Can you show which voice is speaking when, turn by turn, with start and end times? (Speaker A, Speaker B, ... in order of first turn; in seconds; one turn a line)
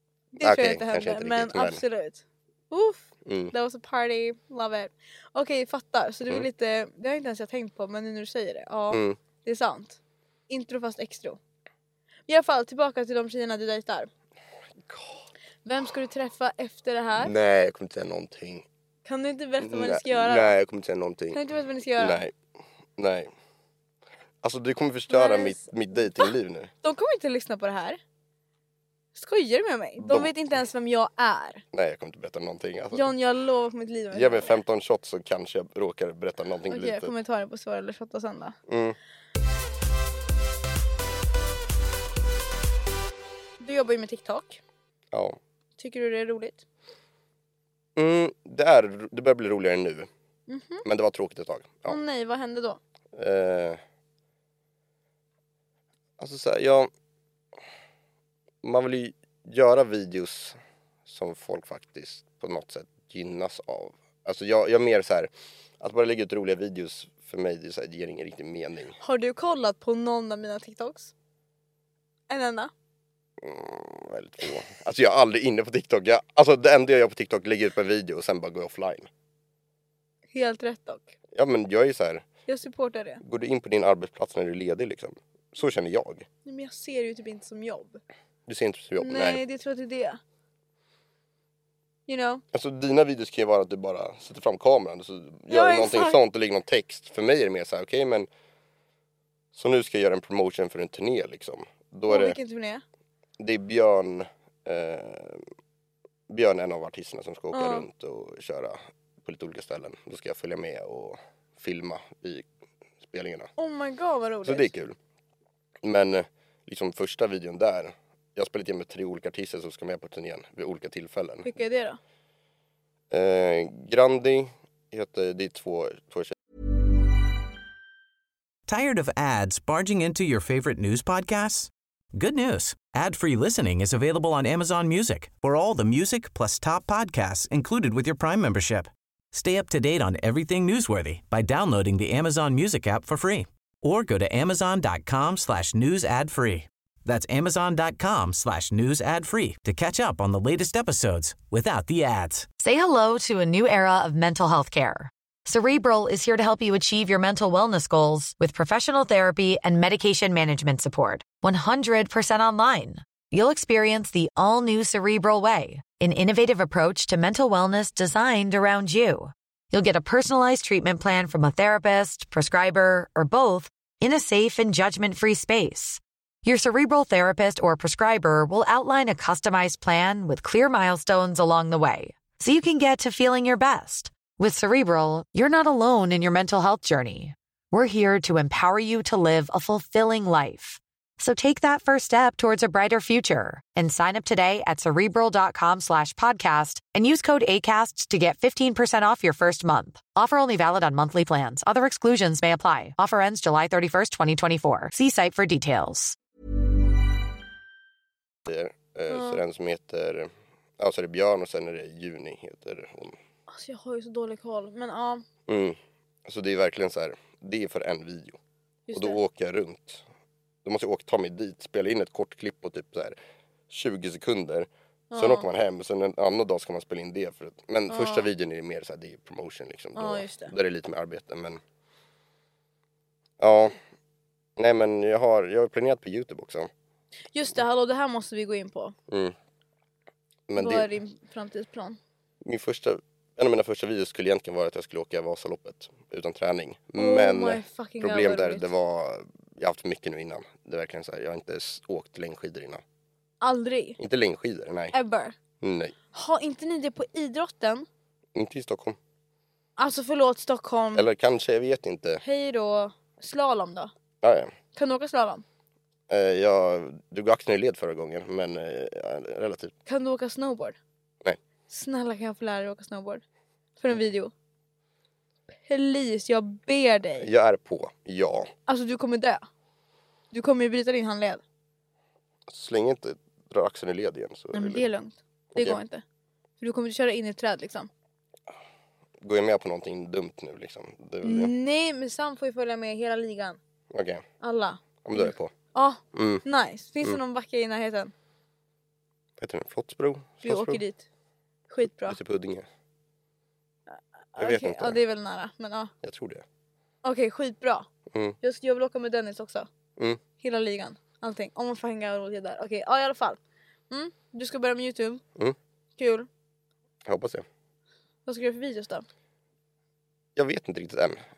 Speaker A: 0.3-11.4
Speaker B: 0.4-1.8
Speaker B: 3.2-3.5
Speaker B: 8.9-9.2
Speaker A: 12.3-14.1
Speaker B: 14.8-15.2
Speaker A: 15.6-17.3
Speaker B: 17.2-18.6
Speaker A: 19.0-20.5
Speaker B: 19.6-21.4
Speaker A: 21.3-22.2
Speaker B: 22.0-22.3
Speaker B: 23.0-23.3
Speaker B: 24.4-26.7
Speaker A: 25.1-26.3
Speaker A: 26.8-28.0
Speaker A: 29.1-31.6
Speaker B: 30.0-30.3
Speaker B: 31.7-33.1
Speaker A: 32.9-34.6
Speaker B: 34.1-37.1
Speaker A: 36.7-38.5
Speaker B: 38.7-39.0
Speaker A: 43.6-44.6
Speaker B: 45.1-45.4
Speaker A: 45.8-46.6
Speaker B: 48.0-50.1
Speaker A: 50.5-50.8
Speaker B: 50.8-52.0
Speaker A: 51.9-52.8
Speaker B: 53.1-53.8
Speaker B: 56.2-56.9
Speaker B: 58.6-65.3
Speaker B: 65.8-69.0
Speaker A: 69.0-71.1
Speaker A: 72.3-72.7
Speaker B: 73.4-79.1
Speaker A: 80.3-81.1
Speaker B: 81.3-82.2
Speaker A: 82.5-83.2
Speaker B: 83.2-86.3
Speaker A: 86.4-88.0
Speaker B: 88.5-89.4
Speaker A: 89.0-90.2
Speaker A: 92.1-92.4
Speaker B: 92.5-98.3
Speaker A: 95.5-96.2
Speaker B: 99.5-102.4
Speaker A: 102.1-102.8
Speaker B: 103.4-105.4
Speaker B: 106.3-112.5
Speaker A: 107.5-107.8
Speaker B: 113.0-113.5
Speaker A: 113.6-114.7
Speaker B: 114.4-115.0
Speaker B: 115.8-121.5
Speaker A: 121.4-122.0
Speaker B: 123.1-126.3
Speaker C: 128.7-152.5
Speaker D: 152.6-206.2
Speaker B: 208.4-213.2
Speaker A: 209.1-209.4
Speaker A: 213.5-215.2
Speaker B: 215.5-218.4
Speaker A: 218.9-219.2
Speaker B: 218.9-220.0
Speaker B: 220.6-223.2
Speaker B: 223.7-231.6
Speaker A: 225.1-225.5
Speaker A: 227.9-228.3
Speaker A: 229.9-230.5
Speaker B: 233.4-233.7
Speaker B: 234.6-236.7
Speaker A: 237.3-238.9
Speaker B: 239.1-239.3
Speaker B: 240.5-240.9
Speaker A: 240.6-242.0
Speaker B: 242.4-252.8
Speaker A: 247.0-248.7
Speaker A: 253.4-254.0
Speaker B: 254.0-254.9
Speaker A: 254.9-255.3
Speaker B: 255.6-255.9
Speaker A: 256.1-257.9
Speaker B: 258.3-259.0
Speaker A: 259.8-261.1
Speaker B: 260.9-262.2
Speaker A: 262.2-263.9
Speaker B: 264.2-264.5
Speaker A: 264.7-265.4
Speaker B: 266.1-269.7
Speaker A: 269.9-270.8
Speaker A: 271.7-273.2
Speaker A: 273.8-274.3
Speaker A: 275.6-277.3
Speaker B: 277.2-278.5
Speaker A: 278.7-279.4
Speaker A: 280.3-281.4
Speaker B: 282.5-284.9
Speaker A: 284.5-286.0
Speaker B: 285.5-285.8
Speaker A: 286.6-287.9
Speaker B: 289.2-291.5
Speaker A: 291.2-293.6
Speaker B: 293.9-294.2
Speaker A: 294.4-298.1
Speaker B: 295.0-295.5
Speaker B: 296.1-296.4
Speaker B: 299.4-300.8
Speaker A: 300.4-301.0
Speaker A: 301.7-302.2
Speaker B: 302.1-302.6
Speaker A: 303.9-305.9
Speaker B: 304.4-305.0
Speaker B: 306.0-306.4
Speaker A: 307.0-307.9
Speaker B: 308.1-308.4
Speaker A: 308.4-309.7
Speaker A: 310.4-313.4
Speaker A: 313.9-315.2
Speaker A: 316.0-316.3
Speaker B: 317.0-317.4
Speaker A: 318.2-319.0
Speaker B: 320.4-321.2